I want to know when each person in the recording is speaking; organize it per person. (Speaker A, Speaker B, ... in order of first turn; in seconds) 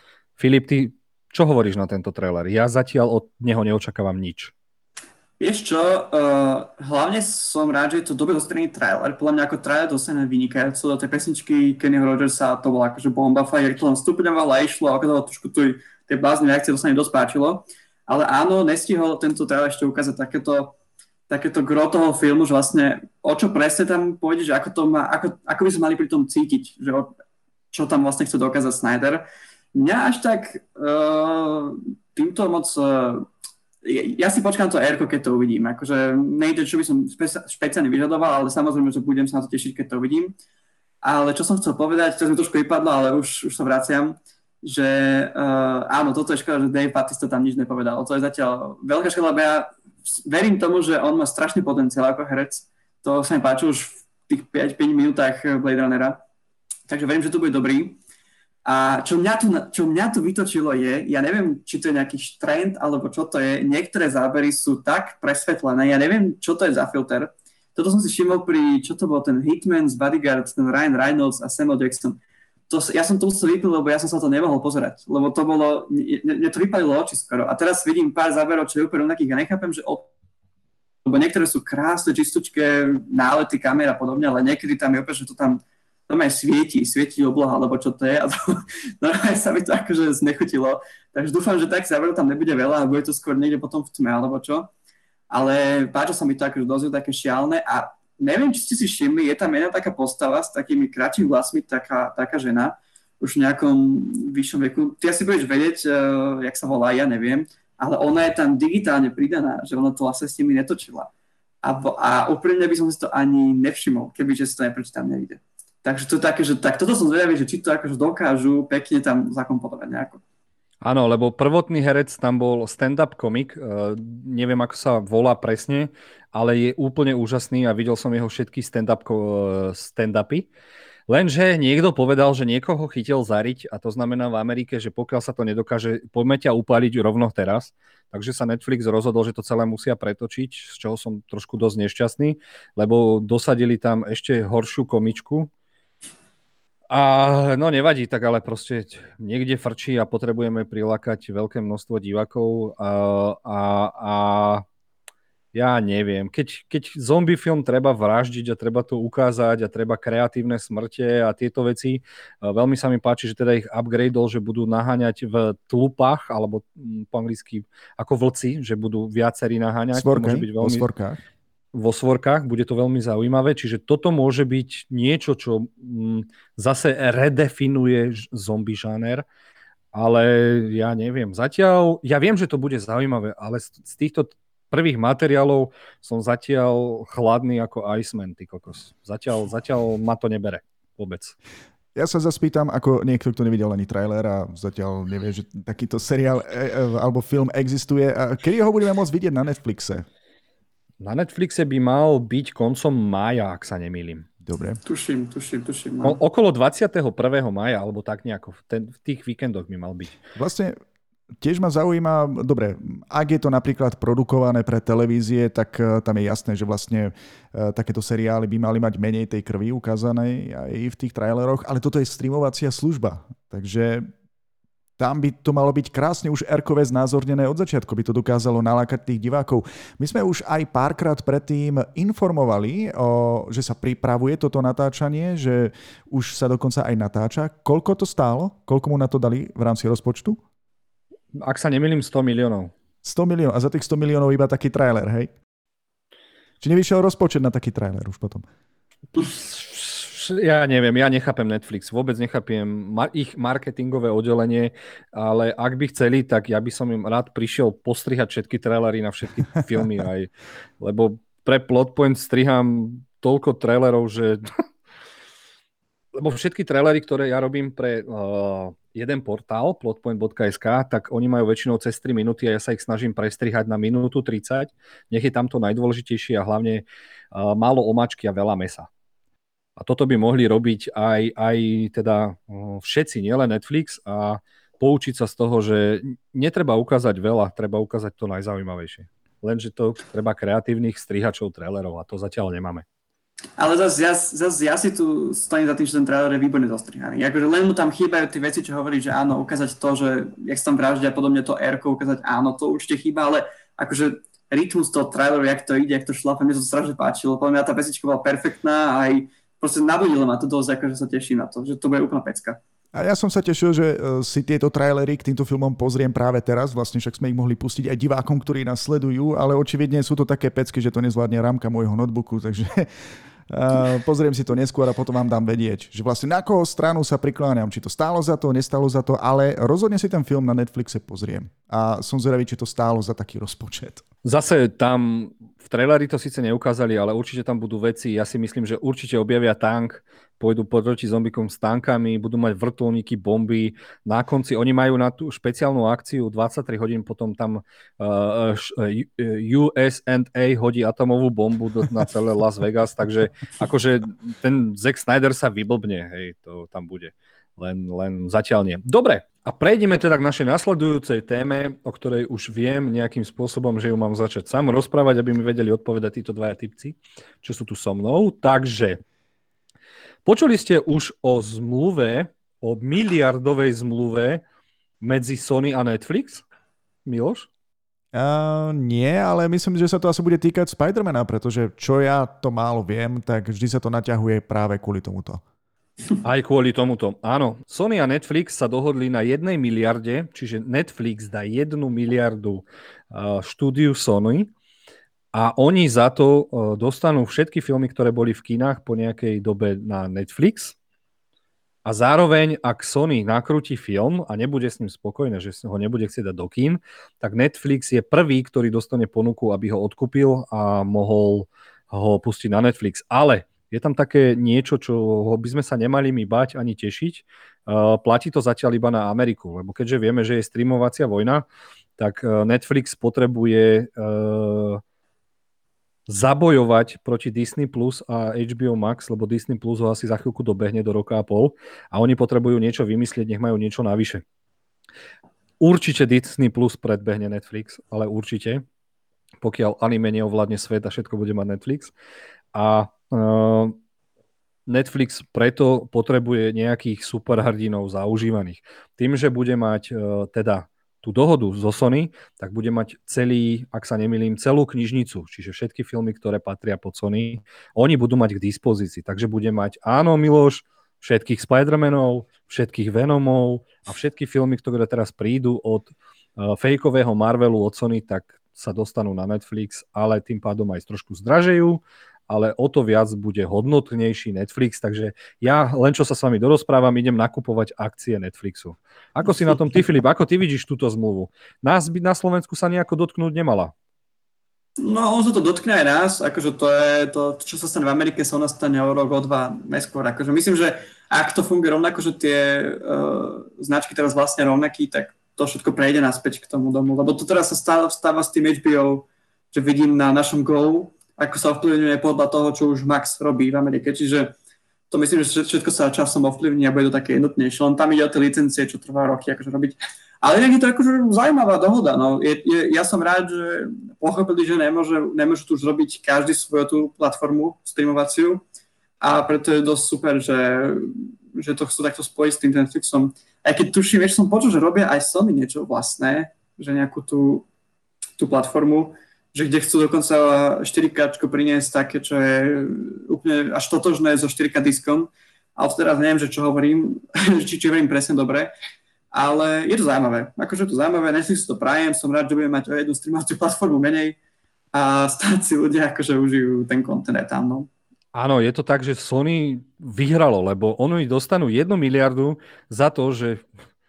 Speaker A: 0.4-4.5, 120.8-130.5, 131.1-145.5, 146.9-154.6, 155.5-170.8, 171.7-179.2, 179.9-191.3, 201.0-204.2, 206.0-210.2, 241.3-242.7, 249.1-264.5, 266.1-278.9, 279.8-292.8, 334.2-369.0, 370.2-374.4, 375.0-376.4, 377.1-377.5, 386.2-394.5, 395.3-400.8, 401.8-421.4, 422.0-424.8, 426.1-434.2, 435.6-438.6, 439.4-441.9, 442.5-443.8, 444.7-483.7, 548.1-553.4
Speaker B: 5.4-20.7, 21.3-27.1, 27.7-33.3, 33.8-40.3, 41.0-56.2, 56.9-58.0, 58.6-80.1, 81.0-94.7, 95.3-111.1, 111.6-120.2, 204.8-206.2, 293.6-312.6, 484.8-504.3, 504.9-518.4, 519.0-527.5, 528.2-538.5, 539.1-544.2, 544.7-547.7
Speaker C: 169.9-171.2, 191.9-200.1, 204.4-204.8, 210.3-210.7, 211.4-224.1, 225.0-240.4, 243.0-245.3, 246.6-248.4, 312.9-322.9, 323.5-334.0, 378.1-385.4